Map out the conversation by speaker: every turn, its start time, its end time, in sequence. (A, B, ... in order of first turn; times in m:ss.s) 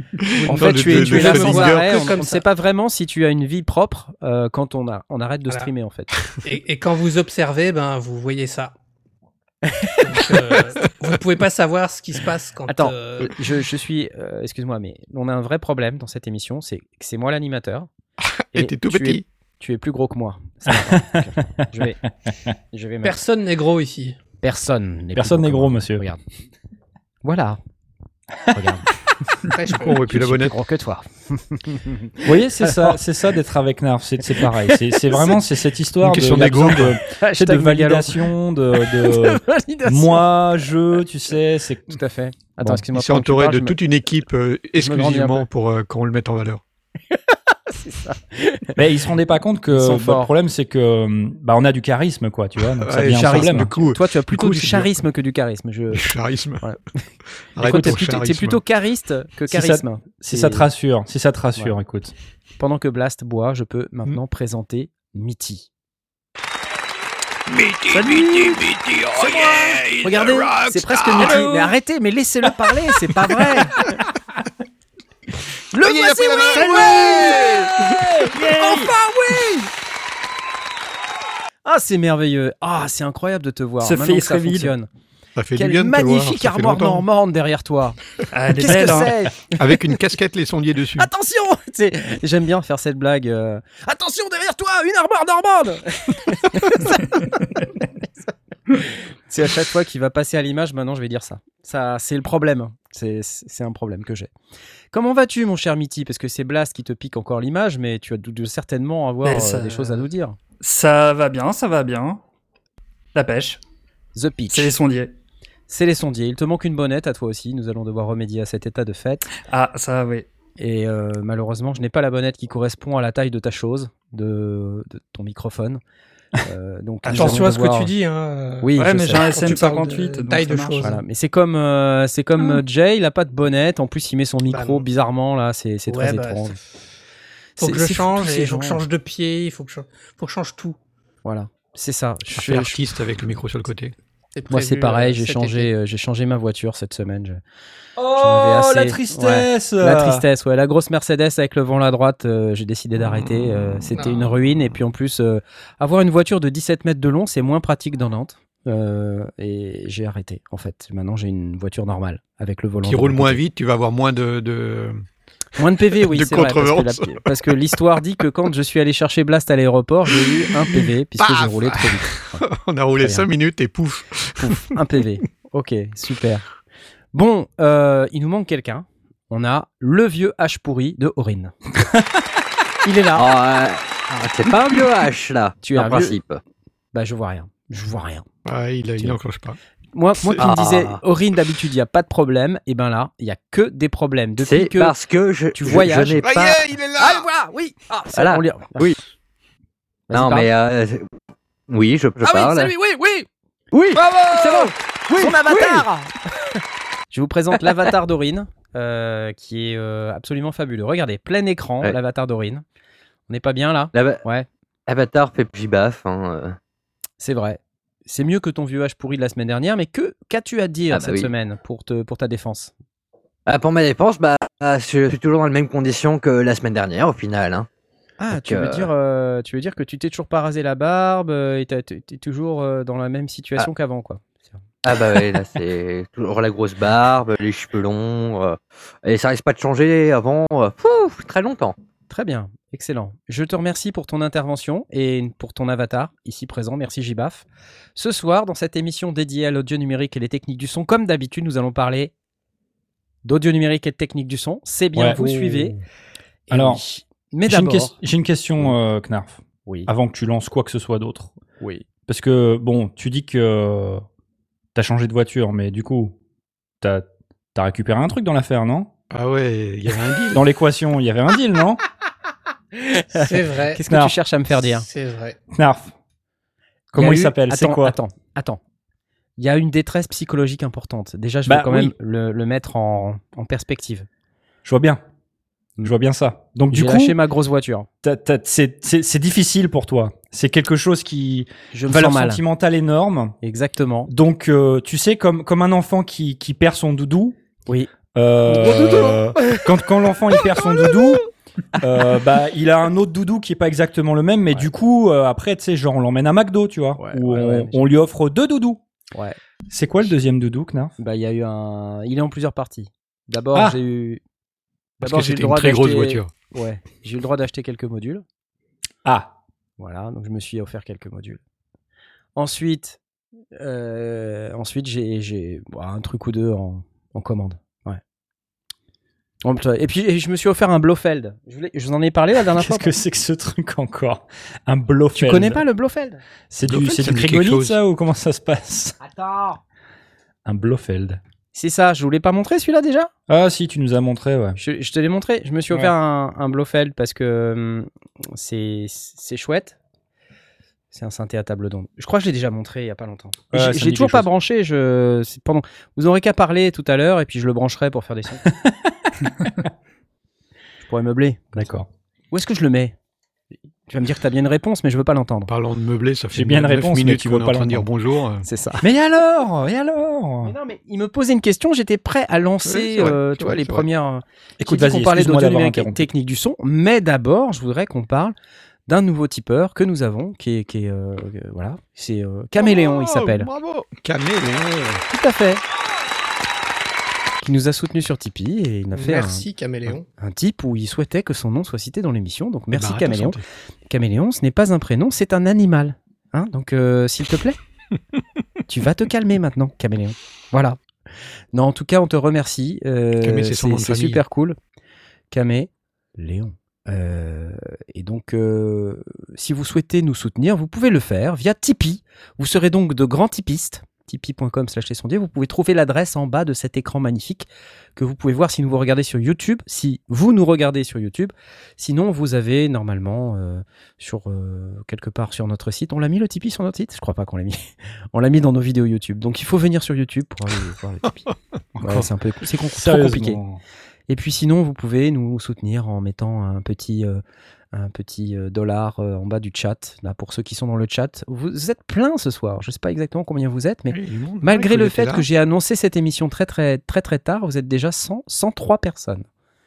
0:00.2-0:02.2 A
0:00.4-0:02.4 B
0:00.4-0:06.1 C
0:06.4-0:08.7 B
0:09.7-0:10.0 C
0:10.0-0:13.3 B
0:12.7-0:17.9 C
0:18.5-0:19.2 A
0:18.5-0:22.0 C
0:20.7-0:21.2 D
0:22.7-0:23.2 C
0:23.0-0:24.2 B
0:24.4-0:26.2 C
0:25.2-0:26.0 D
0:27.2-0:27.6 C
0:28.5-0:28.9 C
0:29.5-0:30.0 B
0:29.7-0:30.5 A
0:30.0-0:33.0 C
0:32.2-0:42.0 D
0:34.3-0:35.4 C
0:36.0-0:37.0 A
0:37.1-0:40.6 C
0:41.9-0:43.8 C
0:42.9-0:46.6 A
0:44.8-0:45.5 C
0:47.3-0:48.8 C
0:48.8-0:53.7 D
0:49.7-0:50.3 C
0:52.8-0:55.0 A
0:53.1-0:56.0 C
0:55.9-0:56.6 A
0:57.6-0:58.6 A
0:57.6-1:00.7 C
0:59.5-1:02.1 D
1:02.6-1:05.7 C
1:07.5-1:11.4 A
1:09.2-1:14.0 C
1:11.2-1:11.7 D
1:15.7-1:17.7 C
1:15.8-1:17.7 A
1:16.9-1:18.9 D
1:18.3-1:19.6 C
1:18.7-1:19.5 B
1:21.6-1:24.9 C
1:23.8-1:24.7 E
1:25.4-1:27.0 A
1:25.6-1:28.0 C
1:28.3-1:29.2 E
1:28.6-1:30.0 C
1:29.6-1:31.1 A
1:31.0-1:37.5 C
1:39.3-1:44.3 C
1:44.9-1:50.4 C
1:49.2-1:50.0 E
1:50.6-1:52.2 E
1:53.2-1:53.6 E
1:54.2-1:54.7 C
1:54.5-1:55.1 E
1:55.7-1:59.3 C
1:59.5-2:00.3 E
2:00.6-2:05.8 C
2:06.4-2:07.9 C
2:07.0-2:11.0 B
2:07.1-2:07.4 E
2:08.6-2:09.4 C
2:08.8-2:10.9 E
2:10.8-2:16.6 C
2:14.5-2:14.9 B
2:15.9-2:16.6 B
2:17.6-2:18.8 C
2:17.6-2:20.8 B
2:21.2-2:22.8 C
2:22.3-2:24.0 A
2:24.4-2:25.7 B
2:24.5-2:27.4 C
2:28.0-2:30.3 D
2:28.1-2:43.4 C
2:33.0-2:33.9 A
2:33.9-2:34.3 B
2:42.8-2:45.0 A
2:45.6-2:52.4 C
2:45.9-2:47.6 A
2:50.2-2:54.8 A
2:53.0-2:53.3 C
2:54.4-2:56.5 C
2:57.1-3:01.5 C
3:02.9-3:03.2 C
3:02.9-3:06.4 F
3:05.6-3:06.2 C
3:06.9-3:08.2 C
3:08.4-3:09.6 A
3:09.9-3:14.9 C
3:10.4-3:11.0 F
3:14.4-3:16.6 F
3:15.5-3:18.9 C
3:16.2-3:17.2 A
3:18.1-3:19.0 F
3:20.1-3:20.5 C
3:20.1-3:21.1 F
3:21.7-3:22.8 F
3:22.2-3:26.1 C
3:27.1-3:32.6 C
3:33.3-3:34.5 C
3:33.9-3:34.2 F
3:34.9-3:36.6 F
3:37.2-3:42.7 C
3:40.9-3:41.3 F
3:43.5-3:47.7 F
3:48.2-3:54.6 C
3:48.3-3:48.9 F
3:54.8-4:01.7 F
4:02.1-4:07.4 C
4:08.0-4:12.1 C
4:13.2-4:15.8 C
4:15.0-4:15.8 D
4:16.5-4:18.0 C
4:16.5-4:16.8 D
4:17.5-4:21.3 D
4:19.7-4:19.9 C
4:21.6-4:21.8 C
4:22.1-4:24.0 D
4:24.8-4:26.2 D
4:26.8-4:28.9 D
4:29.1-4:30.4 A
4:30.3-4:31.8 D
4:32.8-4:34.9 C
4:33.2-4:33.8 B
4:33.9-4:34.2 D
4:34.6-4:35.4 B
4:35.5-4:35.9 D
4:36.9-4:38.6 C
4:36.9-4:38.0 D
4:39.4-4:44.1 C
4:41.5-4:41.9 D
4:44.6-4:45.0 D
4:45.8-4:47.2 D
4:46.7-4:47.9 C
4:48.0-4:53.4 D
4:51.7-4:52.4 C
4:53.4-4:54.1 C
4:54.1-4:57.4 D
4:58.1-5:01.2 D
5:01.8-5:08.8 D
5:07.0-5:07.8 C
5:09.7-5:11.0 D
5:11.0-5:14.2 C
5:15.0-5:18.2 C
5:15.0-5:16.3 A
5:19.0-5:19.3 D
5:19.8-5:21.4 C
5:22.4-5:23.0 C
5:23.6-5:28.0 C
5:29.4-5:32.9 C
5:32.4-5:35.6 D
5:35.1-5:36.2 C
5:36.5-5:39.0 D
5:36.6-5:37.8 A
5:39.0-5:39.6 C
5:40.4-5:41.2 D
5:41.5-5:43.1 C
5:43.3-5:44.6 D
5:44.6-5:49.8 C
5:50.9-5:58.5 C
5:53.5-5:54.3 D
5:58.5-5:59.1 D
6:00.8-6:03.0 C
6:01.6-6:01.9 D
6:03.9-6:05.5 C
6:05.5-6:08.5 A
6:06.3-6:07.9 D
6:08.4-6:08.9 C
6:08.8-6:10.6 D
6:10.4-6:18.4 C
6:12.6-6:13.9 A
6:14.6-6:16.1 D
6:18.9-6:23.5 C
6:22.6-6:25.0 A
6:25.1-6:25.6 C
6:27.4-6:29.4 C
6:28.9-6:30.1 B
6:30.2-6:33.4 C
6:32.7-6:33.4 A
6:33.9-6:37.6 C
6:38.7-6:40.8 C
6:41.5-6:44.6 C
6:43.2-6:44.2 A
6:45.3-7:11.3 C
7:11.8-7:12.1 D
7:11.8-7:13.4 C
7:12.7-7:13.6 D
7:14.1-7:17.2 C
7:17.7-7:29.3 C
7:23.9-7:25.3 A